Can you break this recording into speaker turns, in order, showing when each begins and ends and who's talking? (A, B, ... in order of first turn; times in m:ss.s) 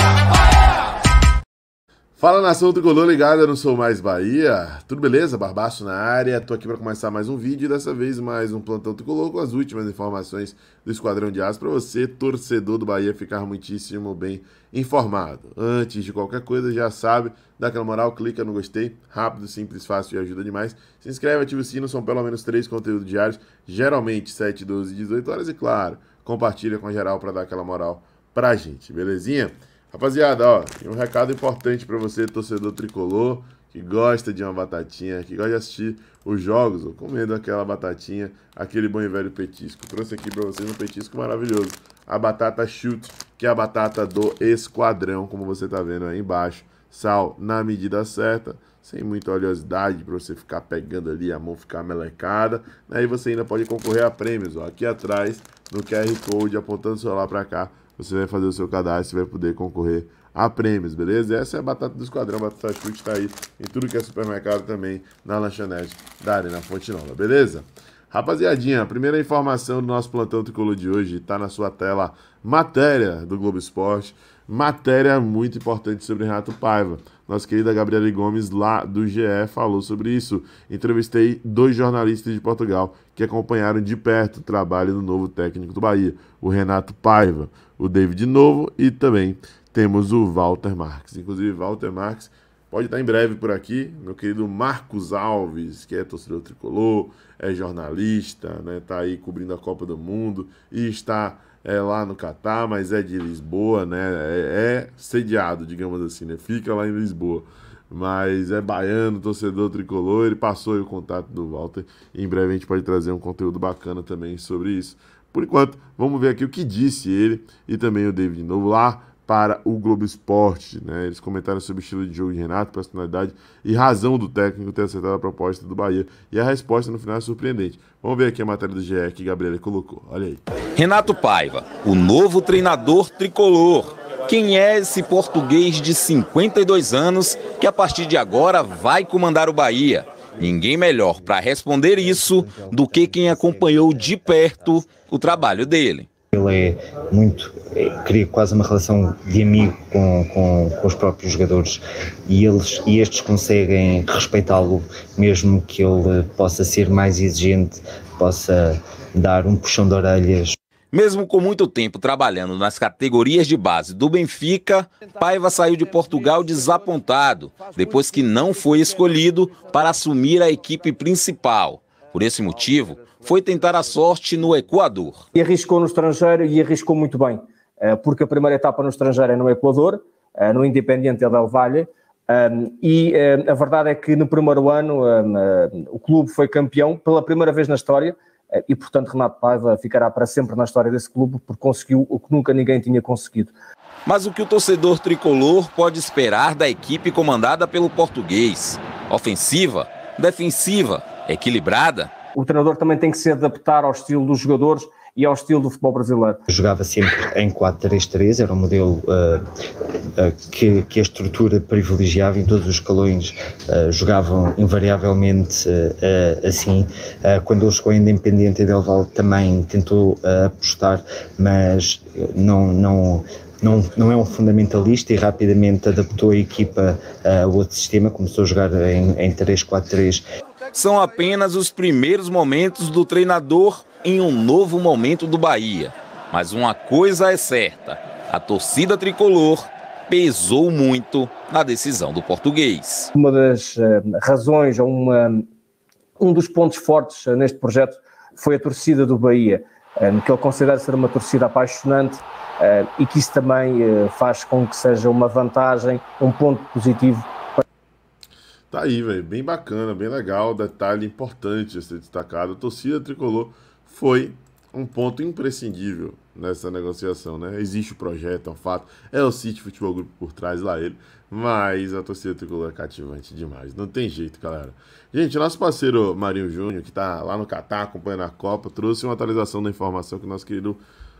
0:02.2-2:10.4 A
2:10.8-2:26.1 B
2:21.0-2:21.4 C
2:22.0-2:24.9 C
2:26.3-2:40.6 C
2:40.9-2:55.2 B
2:55.3-3:13.5 D
3:14.0-3:22.1 B
3:22.3-3:26.4 D
3:26.5-3:29.4 C
3:30.2-3:50.2 C
3:50.7-4:03.1 B
4:03.1-4:05.4 D
4:06.2-4:17.6 D
4:18.7-4:40.8 A